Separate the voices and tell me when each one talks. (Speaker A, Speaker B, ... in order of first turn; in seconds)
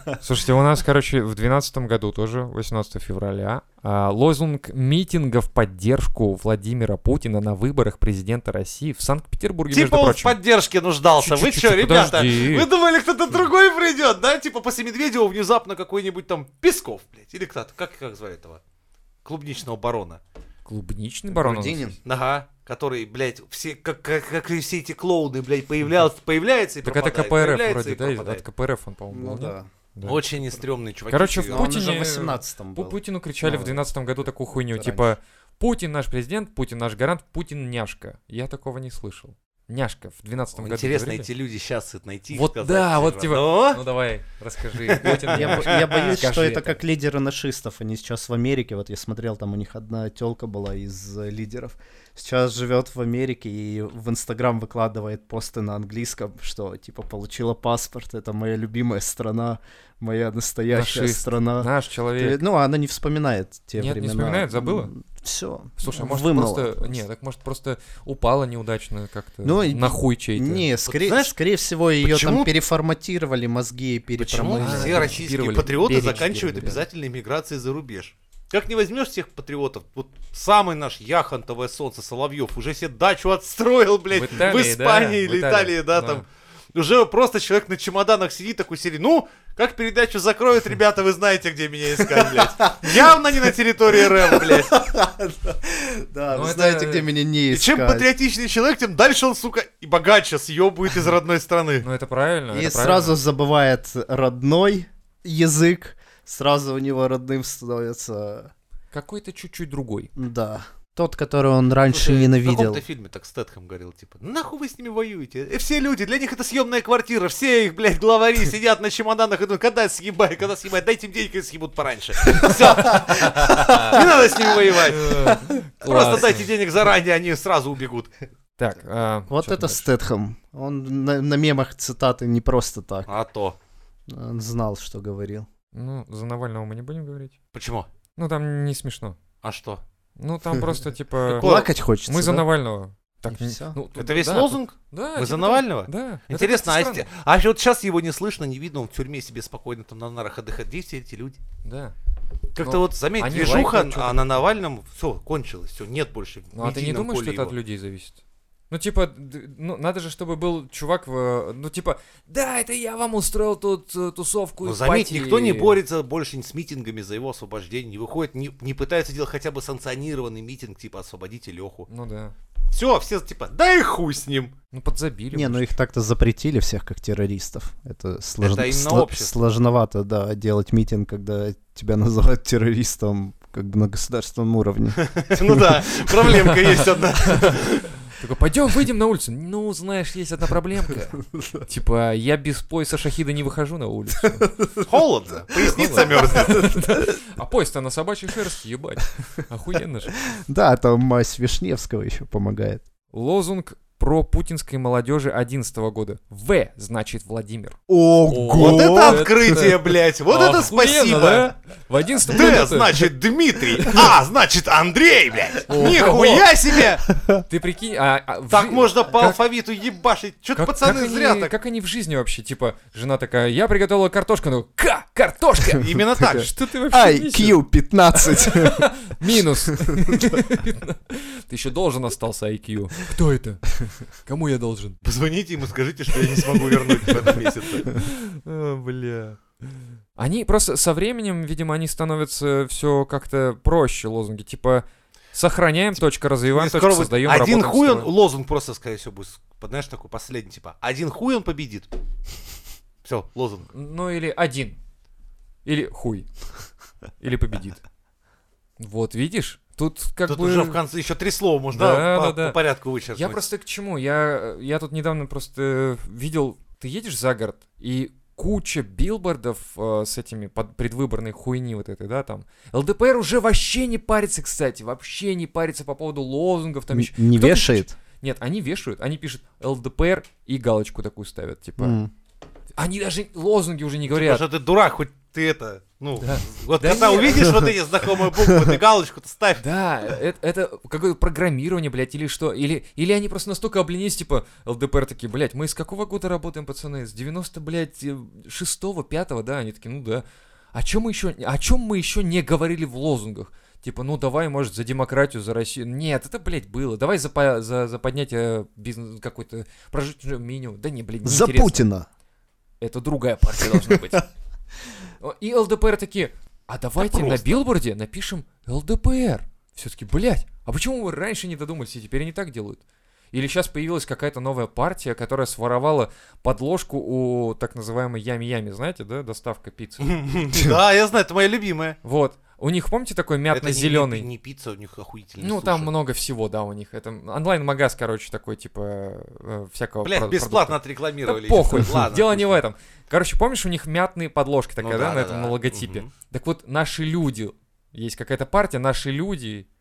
Speaker A: 0.2-10.4, 11.2-12.7, 20.7-22.0, 26.8-30.2, 31.1-41.3, 42.3-46.8, 60.7-62.4, 63.8-64.9, 65.8-70.7, 74.4-76.8, 84.1-86.2, 96.3-97.1, 101.8-103.2, 108.9-110.1, 123.4-124.0, 124.9-126.5, 128.6-129.9, 135.7-137.3, 138.2-139.2, 140.2-141.5, 142.1-147.1, 151.6-151.9, 152.6-154.3, 156.6-165.8, 171.9-172.3, 174.7-175.7, 186.5-194.5, 195.6-200.1, 203.1-213.1, 213.8-214.1, 215.7-216.5, 217.5-219.4, 220.6-227.6, 228.1-235.0, 236.9-239.4, 240.2-248.1, 253.7-254.8, 255.7-256.3, 257.2-257.8, 258.8-260.8, 261.7-262.6, 263.2-282.0, 282.8-284.5, 286.2-287.6, 289.6-311.9, 312.8-314.3, 315.2-330.1, 332.0-334.3, 335.4-349.7
Speaker B: 9.7-18.6, 19.2-20.2, 22.1-28.4, 30.0-31.8, 40.6-43.8, 44.9-46.2, 70.9-71.3, 72.0-72.5, 74.2-94.8, 97.5-101.8, 111.9-128.1, 133.1-133.6, 137.5-137.9, 139.4-139.8, 141.3-141.7, 144.0-151.4, 152.6-157.6, 164.6-171.9, 172.7-174.5, 178.4-179.3, 185.0-187.9, 194.8-196.8, 208.5-211.5, 212.3-217.1, 218.5-221.5, 225.8-226.5, 235.0-237.9, 246.5-251.9, 253.1-253.7, 260.3-263.4, 284.1-289.6, 317.0-317.6, 330.0-332.0, 333.5-335.9, 340.0-342.6, 344.8-346.1
Speaker C: 21.3-22.0, 29.1-29.7, 31.5-33.9, 34.8-35.1, 45.3-67.0, 69.4-75.3, 75.8-76.7, 92.0-93.2, 94.0-98.1, 102.5-108.5, 110.2-112.8, 122.4-124.0, 129.3-133.1, 134.1-135.5, 141.3-142.5, 143.3-143.8, 175.3-185.8, 191.2-191.7, 194.4-194.9, 195.7-197.2, 200.3-202.8, 207.9-209.6, 217.1-217.4, 226.0-228.9, 229.5-230.4, 276.9-277.9, 281.8-282.1, 311.2-312.1